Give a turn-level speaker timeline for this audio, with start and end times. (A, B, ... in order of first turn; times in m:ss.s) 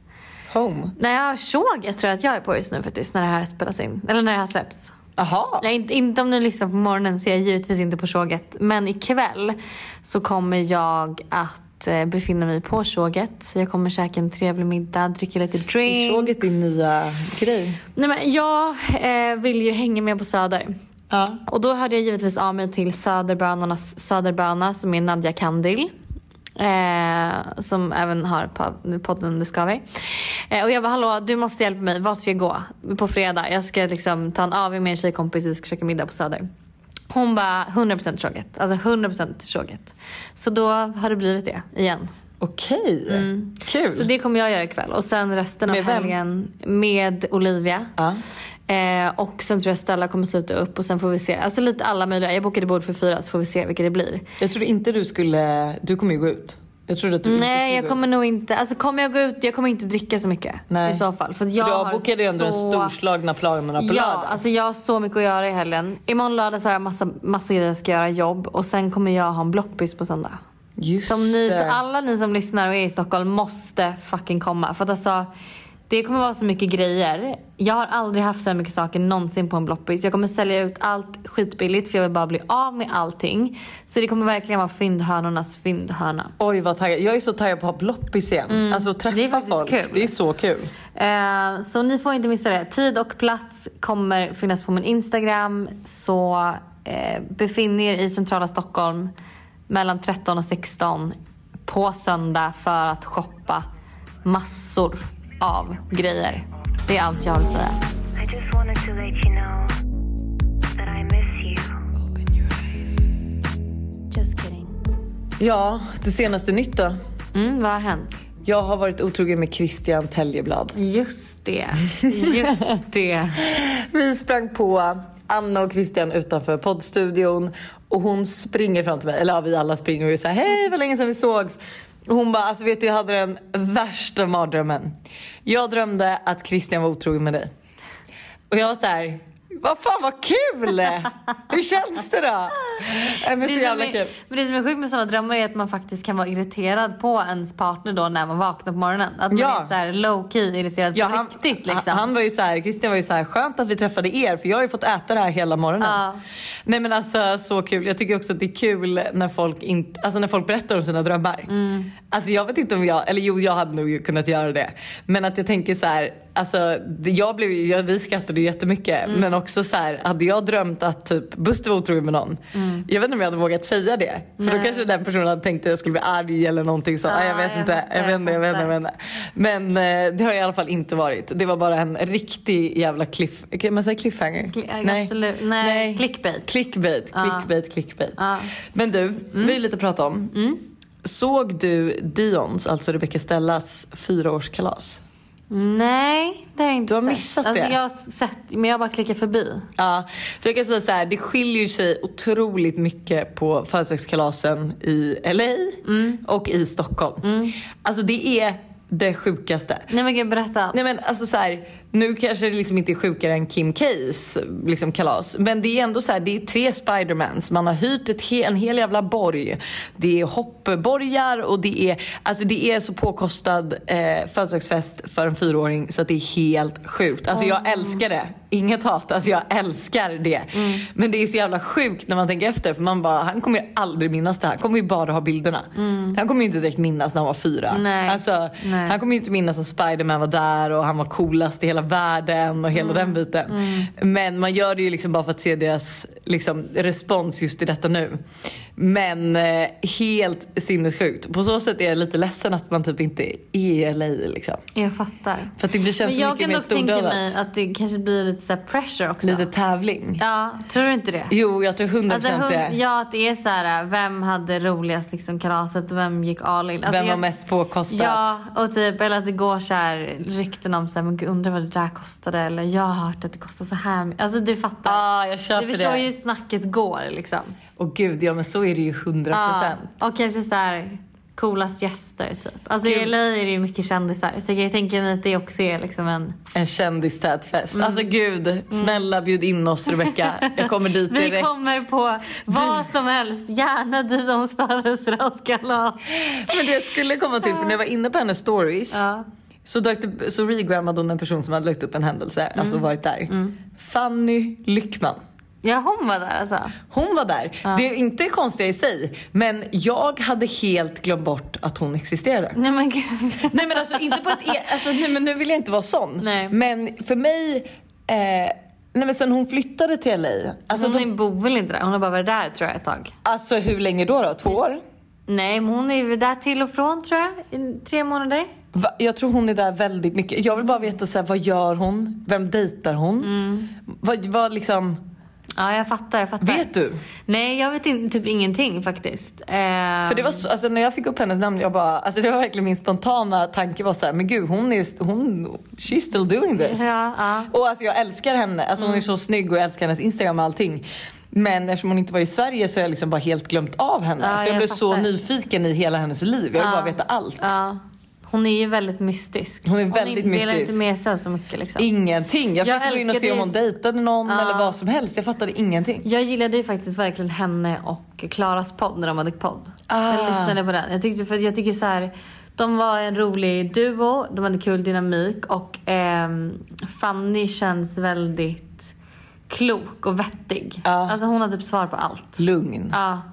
0:00.5-0:01.0 A
0:01.0-0:04.9 B
0:05.2-0:05.6 A
0:05.6-0:16.6 B
0:15.8-0:17.8 A
0:18.0-0:20.7 B
0:21.1-0:21.4 A
0:21.5-0:25.9 B
0:26.6-0:36.4 B
0:37.1-0:42.1 B
0:42.4-0:44.1 A
0:43.1-0:47.9 B
0:45.6-0:46.1 A
0:48.7-0:54.2 B
0:54.4-0:58.0 A
0:57.2-1:03.0 B
1:00.7-1:01.0 A
1:01.6-1:04.4 A
1:03.8-1:10.4 B
1:10.8-1:11.8 A
1:11.1-1:15.3 B
1:15.9-1:26.3 B
1:26.4-1:30.7 A
1:28.5-1:30.1 B
1:31.0-1:39.1 B
1:39.7-1:41.2 B
1:41.7-1:43.6 B
1:44.2-1:47.8 B
1:48.2-1:49.8 C
1:50.8-1:51.8 C
1:54.1-1:54.8 B
1:55.4-1:57.0 A
1:57.3-1:58.2 B
1:58.4-2:00.8 A
2:00.8-2:03.4 B
2:03.4-2:14.9 A
2:15.5-2:17.5 A
2:18.5-2:24.2 A
2:23.4-2:32.1 B
2:29.3-2:29.7 A
2:30.9-2:36.0 A
2:35.8-2:36.2 B
2:36.7-2:41.5 A
2:41.5-2:41.9 B
2:42.1-3:10.3 A
2:49.1-2:49.3 B
2:52.5-2:52.9 B
2:54.4-2:54.9 B
2:57.1-2:58.7 B
3:04.5-3:06.5 B
3:07.1-3:07.5 B
3:08.2-3:08.5 B
3:10.3-3:10.6 B
3:11.0-3:15.0 A
3:15.5-3:19.7 B
3:16.9-3:17.8 A
3:19.8-3:27.3 A
3:25.8-3:26.2 B
3:27.2-3:27.6 B
3:27.8-3:29.9 A
3:29.9-3:30.9 B
3:30.7-4:08.2 A
3:47.3-3:48.0 B
3:50.5-3:50.9 B
3:55.8-3:56.2 B
3:57.7-3:59.0 B
4:02.8-4:03.9 B
4:08.8-4:14.6 A
4:14.8-4:19.5 B
4:15.6-4:17.3 A
4:19.2-4:20.2 A
4:20.2-4:21.3 B
4:21.3-4:22.8 A
4:22.1-4:27.2 B
4:26.9-4:28.3 A
4:27.9-4:35.0 B
4:34.8-4:36.0 A
4:35.6-4:37.5 B
4:37.8-4:39.8 A
4:39.3-4:46.4 B
4:42.8-4:43.1 A
4:46.5-4:51.5 A
4:47.7-4:48.1 B
4:48.7-4:49.0 B
4:50.0-4:56.8 B
4:56.3-4:59.0 A
4:57.4-4:57.8 B
4:58.9-4:59.2 B
4:59.6-5:05.2 A
5:02.6-5:03.6 B
5:05.6-5:06.8 B
5:06.9-5:12.6 A
5:12.6-5:14.7 B
5:13.5-5:21.1 A
5:16.2-5:16.5 B
5:20.7-5:23.1 B
5:23.2-5:24.8 A
5:25.3-5:28.5 B
5:28.7-5:33.3 A
5:33.2-5:33.7 B
5:33.9-5:35.0 A
5:35.6-5:36.7 B
5:36.4-5:37.0 A
5:37.3-5:40.4 B
5:40.1-5:46.9 A
5:46.6-5:47.5 B
5:47.5-5:57.5 A
5:48.8-5:49.1 B
5:54.2-5:55.1 B
5:56.6-6:01.9 B
5:59.6-6:00.8 A
6:01.8-6:06.0 A
6:02.6-6:03.5 B
6:04.2-6:04.8 B
6:06.0-6:18.9 B
6:09.9-6:10.6 A
6:19.5-6:22.4 B
6:20.8-6:21.2 A
6:22.4-6:23.0 A
6:22.9-6:23.2 B